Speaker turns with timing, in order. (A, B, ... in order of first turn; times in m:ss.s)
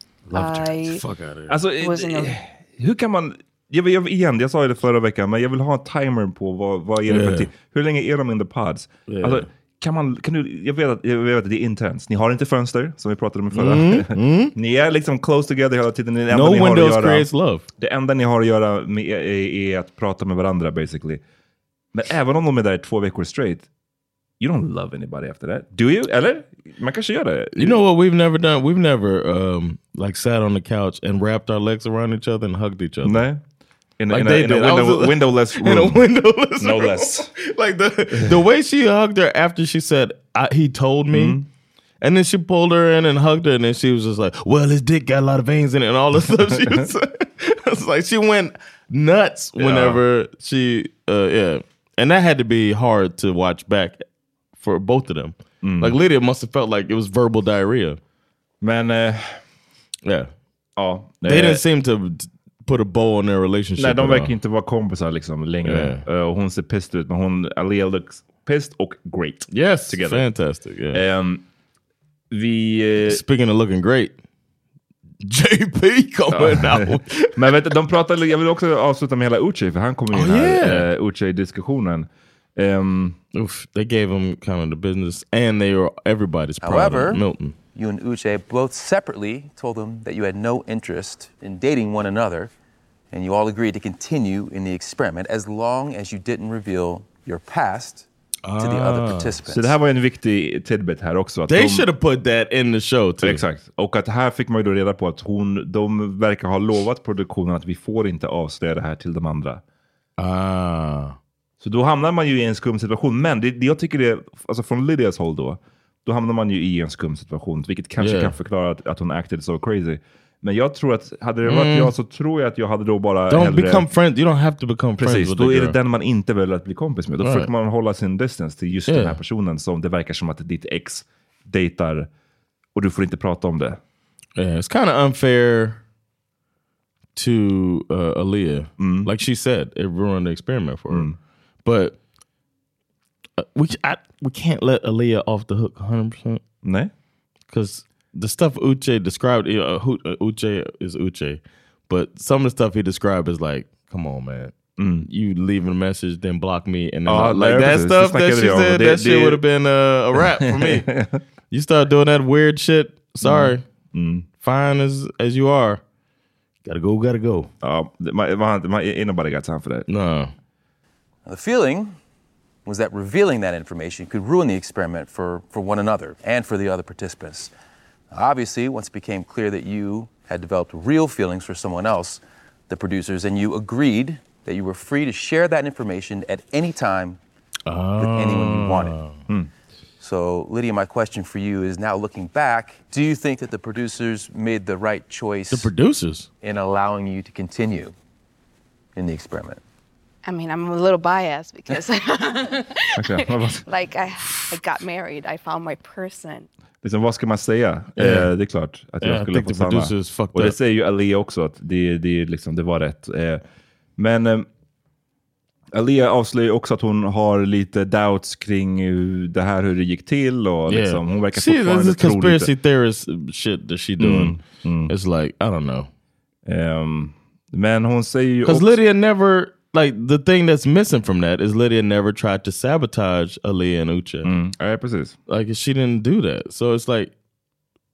0:00.3-0:01.6 A
0:00.3-0:01.0 B
0:01.5-0:21.2 C
0:01.7-0:02.4 B
0:07.1-0:07.5 A
0:09.1-0:09.5 A
0:13.5-0:14.5 A
0:16.3-0:17.6 A
0:21.9-0:23.7 C
0:24.4-0:27.8 C
0:27.6-0:33.2 A
0:33.0-0:33.4 C
0:34.0-0:36.0 C
0:34.1-0:41.4 A
0:36.6-0:37.3 C
0:41.1-0:41.4 C
0:42.0-0:54.0 A
0:46.5-0:46.9 C
0:49.6-0:50.0 C
0:54.6-0:58.0 A
0:55.6-0:56.0 C
0:58.6-0:59.4 C
1:00.0-1:00.3 A
1:00.8-1:01.6 C
1:01.2-1:04.3 A
1:03.8-1:10.2 C
1:05.6-1:06.0 A
1:09.5-1:11.0 A
1:10.9-1:11.4 C
1:12.3-1:13.2 C
1:13.0-1:14.1 A
1:15.2-1:17.4 A
1:16.3-1:23.2 C
1:20.1-1:20.9 A
1:23.3-1:27.6 A
1:26.6-1:27.2 D
1:27.7-1:32.5 D
1:33.1-1:38.1 D
1:38.5-1:39.4 A
1:38.6-1:39.7 D
1:39.5-1:41.9 C
1:41.5-1:43.4 A
1:43.2-1:49.6 C
1:50.2-1:51.2 A
1:51.6-2:03.9 C
1:58.0-1:58.3 A
2:01.4-2:01.9 A
2:03.3-2:05.8 A
2:05.0-2:12.1 C
2:07.2-2:07.5 A
2:08.9-2:09.2 A
2:12.8-2:13.8 C
2:14.4-2:15.8 A
2:17.2-2:21.1 A
2:18.8-2:19.1 C
2:20.9-2:21.2 C
2:21.6-2:22.0 A
2:23.4-2:26.4 A
2:26.6-2:26.9 C
2:27.5-2:34.6 A
2:34.8-2:35.1 C
2:35.1-2:40.9 A
2:37.1-2:39.4 C
2:40.2-2:41.2 C
2:41.5-2:43.6 A
2:43.2-2:44.3 C
2:44.4-2:45.8 A
2:46.6-2:47.5 A
2:47.6-2:49.9 C
2:49.9-2:50.3 A
2:51.3-2:52.0 D
2:52.7-2:57.5 D
2:58.1-3:07.2 D
3:07.7-3:09.2 A
3:08.0-3:09.0 D
3:10.0-3:15.7 D
3:15.5-3:16.3 A
3:16.4-3:17.9 D
3:19.0-3:19.6 D
3:20.3-3:26.5 B
3:23.0-3:23.6 C
3:26.8-3:33.4 C
3:28.0-3:28.3 A
3:29.0-3:30.6 A
3:34.0-3:34.5 C
3:35.7-3:42.5 C
3:40.7-3:45.9 A
3:44.0-3:44.9 C
3:46.5-3:48.8 C
3:48.4-3:54.3 A
3:54.2-3:55.2 C
3:55.3-3:57.1 A